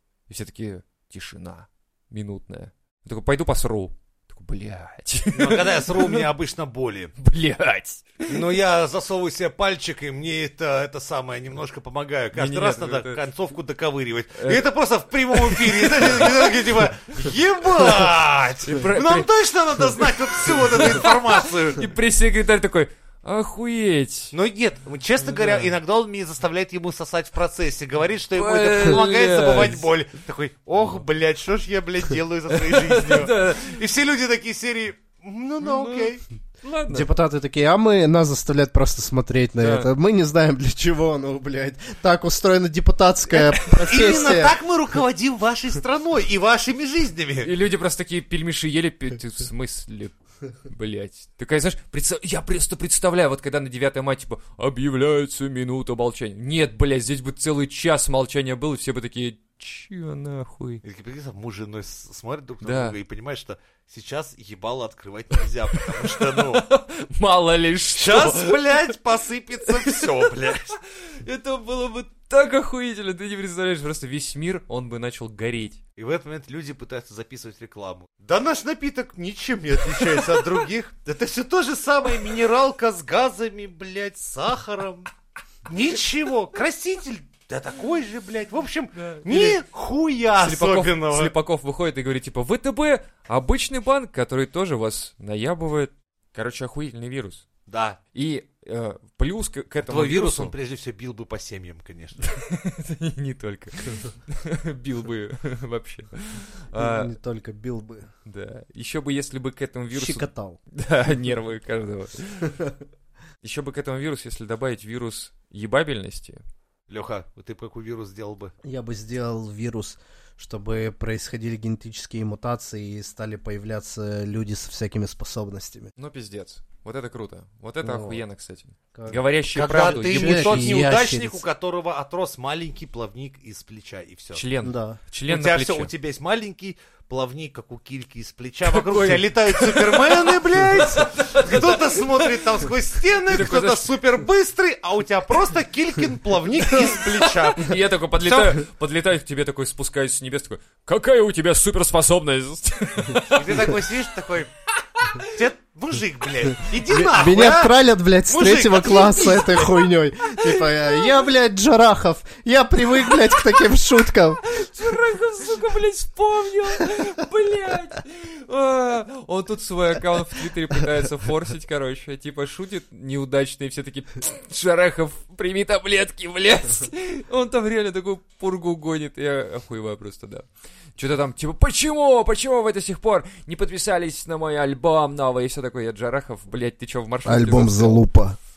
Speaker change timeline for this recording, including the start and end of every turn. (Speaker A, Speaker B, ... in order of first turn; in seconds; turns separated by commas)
Speaker A: 0.3-6.2, Speaker B: 5.3-7.1, Speaker A: 7.2-8.5, Speaker B: 8.3-21.9, Speaker A: 12.3-13.2, Speaker A: 14.4-14.7, Speaker A: 15.3-16.6, Speaker A: 18.6-19.3, Speaker A: 19.9-24.3, Speaker B: 24.3-36.2, Speaker A: 25.2-25.7, Speaker A: 28.3-29.9, Speaker A: 32.5-33.8, Speaker A: 35.6-37.1, Speaker C: 36.9-44.6, Speaker A: 39.6-39.9, Speaker B: 43.8-47.5, Speaker A: 47.4-60.8, Speaker B: 60.8-66.6, Speaker A: 62.6-63.0, Speaker A: 65.7-68.9, Speaker B: 68.0-70.8, Speaker A: 69.7-75.8, Speaker B: 76.0-85.1, Speaker A: 80.0-80.4, Speaker B: 85.7-91.3, Speaker A: 89.0-89.6, Speaker A: 90.4-97.5, Speaker B: 97.7-98.0, Speaker A: 98.1-100.5, Speaker B: 99.8-102.2, Speaker A: 102.2-107.1, Speaker C: 106.8-108.1, Speaker A: 108.2-112.6, Speaker C: 109.9-110.6, Speaker A: 113.4-116.4, Speaker B: 116.9-118.5, Speaker C: 118.6-125.9, Speaker A: 126.0-130.9, Speaker C: 127.8-128.2, Speaker C: 128.9-131.4, Speaker B: 129.5-134.4, Speaker A: 134.3-135.9, Speaker C: 134.6-135.0, Speaker B: 135.3-148.6, Speaker A: 138.6-143.9, Speaker A: 146.6-153.8, Speaker B: 153.3-154.5, Speaker A: 154.9-155.3, Speaker B: 155.2-159.7, Speaker C: 156.8-164.4, Speaker A: 160.2-161.2, Speaker A: 163.1-188.1, Speaker C: 187.2-188.4